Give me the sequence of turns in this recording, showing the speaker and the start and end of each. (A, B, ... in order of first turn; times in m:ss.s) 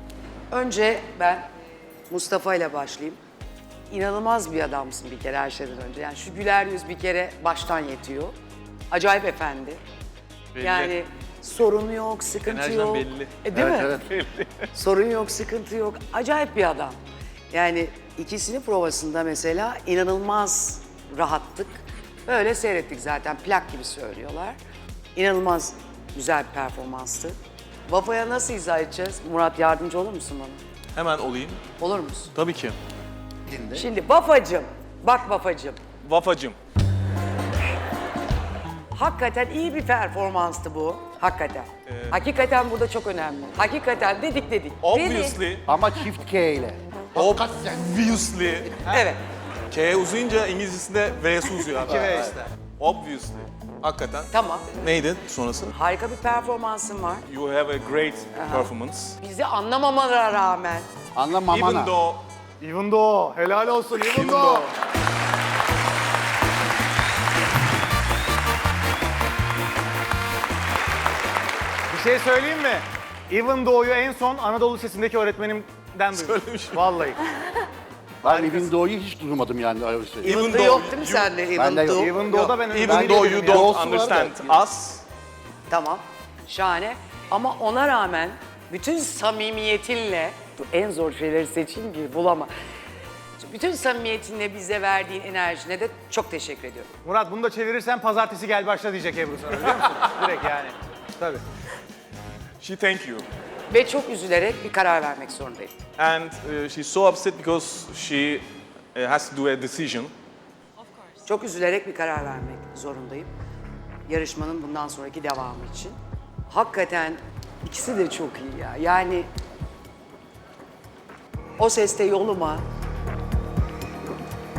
0:00.5-0:01.5 A
0:02.1-0:03.2 A
0:03.9-0:08.4 A
0:08.9-0:09.8 A
0:10.5-0:10.9 B
0:10.6-0:14.0 A
0:12.5-0:13.4 B
0:13.5-0:14.0 C
0:14.0-0:14.7 B
0:14.7-0:17.0 A
0:17.5-0:24.6 A
0:25.2-0:30.6 A
0:30.9-0:31.6 B
0:31.8-0:32.3 A
0:32.4-0:32.8 B
0:33.5-0:33.8 C
0:33.7-0:35.8 A
0:36.0-0:36.6 B
0:38.9-0:45.4 A
0:41.9-0:42.2 B
0:44.8-0:45.6 B
0:45.6-0:47.9 C
0:47.2-0:48.7 B
0:48.9-0:49.2 A
0:49.7-0:54.3 B
0:51.8-0:52.5 D
0:51.9-0:52.3 C
0:54.3-0:54.7 A
0:54.8-0:55.7 B
0:55.7-0:57.3 A
0:57.3-0:59.2 B
0:58.3-1:00.9 A
1:01.1-1:02.0 C
1:01.5-1:02.2 B
1:02.6-1:04.7 D
1:04.0-1:04.7 C
1:11.9-1:17.2 D
1:16.2-1:16.8 B
1:18.2-1:20.4 C
1:18.3-1:18.7 D
1:20.2-1:21.3 B
1:20.2-1:22.5 A
1:21.5-1:24.6 C
1:21.9-1:23.7 D
1:22.7-1:25.0 B
1:25.7-1:32.5 A
1:33.4-1:36.9 A
1:37.0-1:41.4 D
1:42.6-1:43.3 B
1:43.7-1:45.8 A
1:46.0-1:50.1 B
1:51.2-1:53.3 A
1:54.1-1:56.0 A
1:56.5-1:59.3 A
2:01.6-2:02.6 A